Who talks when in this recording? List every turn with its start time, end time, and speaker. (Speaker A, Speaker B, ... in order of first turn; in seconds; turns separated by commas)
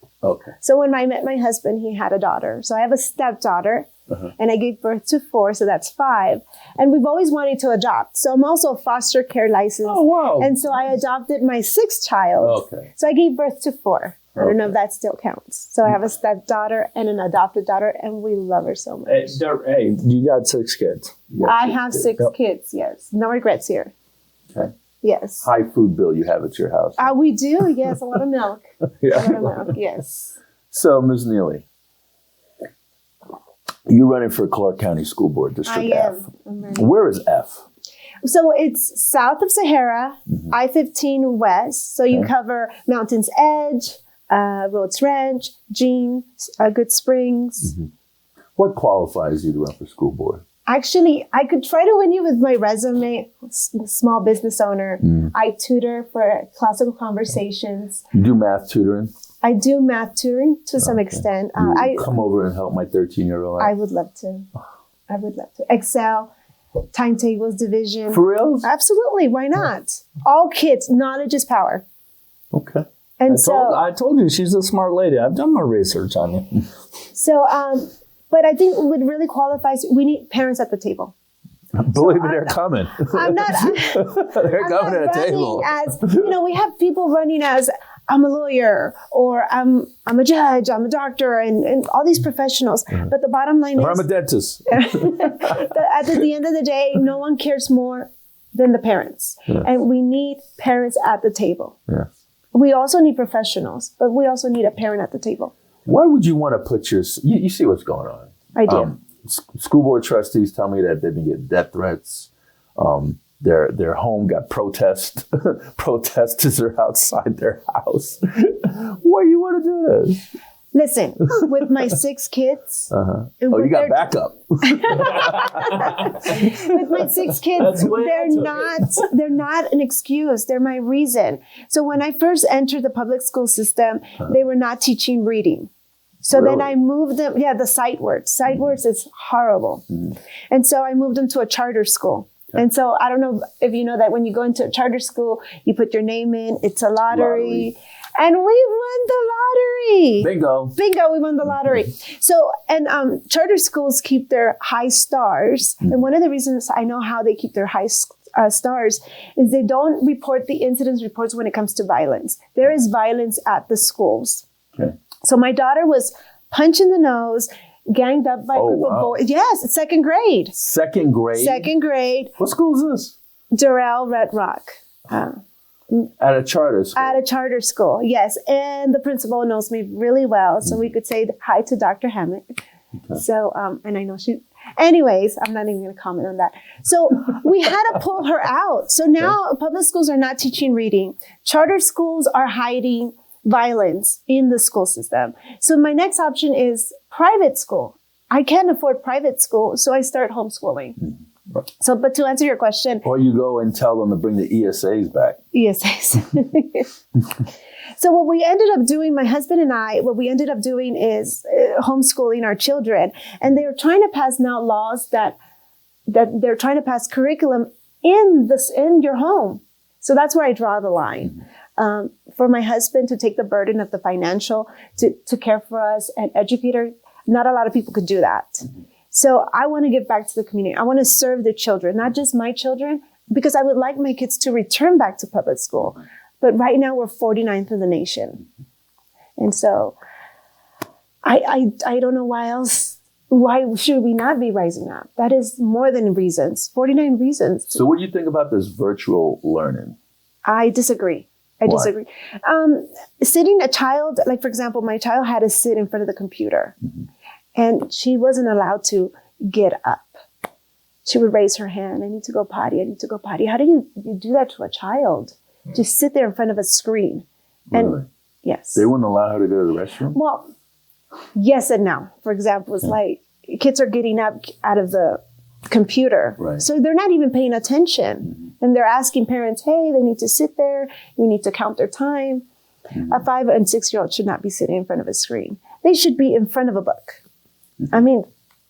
Speaker A: 0.2-0.5, Speaker B: 0.6-19.4, Speaker A: 9.8-10.6, Speaker A: 12.4-12.9, Speaker A: 14.3-14.6, Speaker C: 19.1-21.1, Speaker A: 21.3-22.0, Speaker B: 21.4-23.9, Speaker B: 25.0-25.4, Speaker A: 25.4-27.1, Speaker B: 27.0-30.3, Speaker C: 29.0-29.6, Speaker A: 30.7-31.6, Speaker A: 33.9-36.2, Speaker B: 35.6-36.9, Speaker A: 36.7-37.6, Speaker B: 38.2-47.7, Speaker A: 48.5-50.4, Speaker B: 50.7-58.0, Speaker A: 58.1-59.1, Speaker B: 59.4-62.2, Speaker A: 61.5-63.7, Speaker B: 63.6-64.5, Speaker B: 65.1-66.3, Speaker B: 66.9-71.8, Speaker A: 68.1-68.7, Speaker A: 72.5-72.8, Speaker B: 73.2-73.8, Speaker C: 73.2-76.6, Speaker B: 77.1-81.1, Speaker A: 81.7-86.3, Speaker B: 81.9-94.0, Speaker A: 93.8-95.5, Speaker B: 94.7-101.8, Speaker B: 102.5-105.5, Speaker A: 105.8-120.2, Speaker B: 108.5-108.9, Speaker B: 120.7-124.1, Speaker A: 122.9-126.8, Speaker B: 124.6-135.7, Speaker C: 127.6-128.8, Speaker B: 136.2-139.8, Speaker A: 136.3-136.7, Speaker B: 140.5-164.4, Speaker A: 147.1-147.7, Speaker A: 150.2-150.8, Speaker B: 165.2-170.5, Speaker A: 168.5-169.1, Speaker A: 170.6-171.7, Speaker B: 171.3-172.3, Speaker A: 172.4-173.1, Speaker B: 173.5-175.4, Speaker A: 176.2-177.2, Speaker B: 176.9-182.6, Speaker B: 183.1-201.0, Speaker B: 201.8-203.0, Speaker A: 203.0-205.4, Speaker B: 205.5-206.9, Speaker B: 208.0-215.3, Speaker B: 216.1-238.4, Speaker B: 239.4-240.0, Speaker B: 241.2-247.8, Speaker A: 247.7-249.9, Speaker B: 250.4-256.7, Speaker B: 257.6-260.1, Speaker B: 261.0-268.9, Speaker A: 267.7-268.1, Speaker A: 268.7-270.2, Speaker B: 270.1-270.5, Speaker B: 271.4-282.4, Speaker B: 283.0-287.2, Speaker B: 287.9-288.2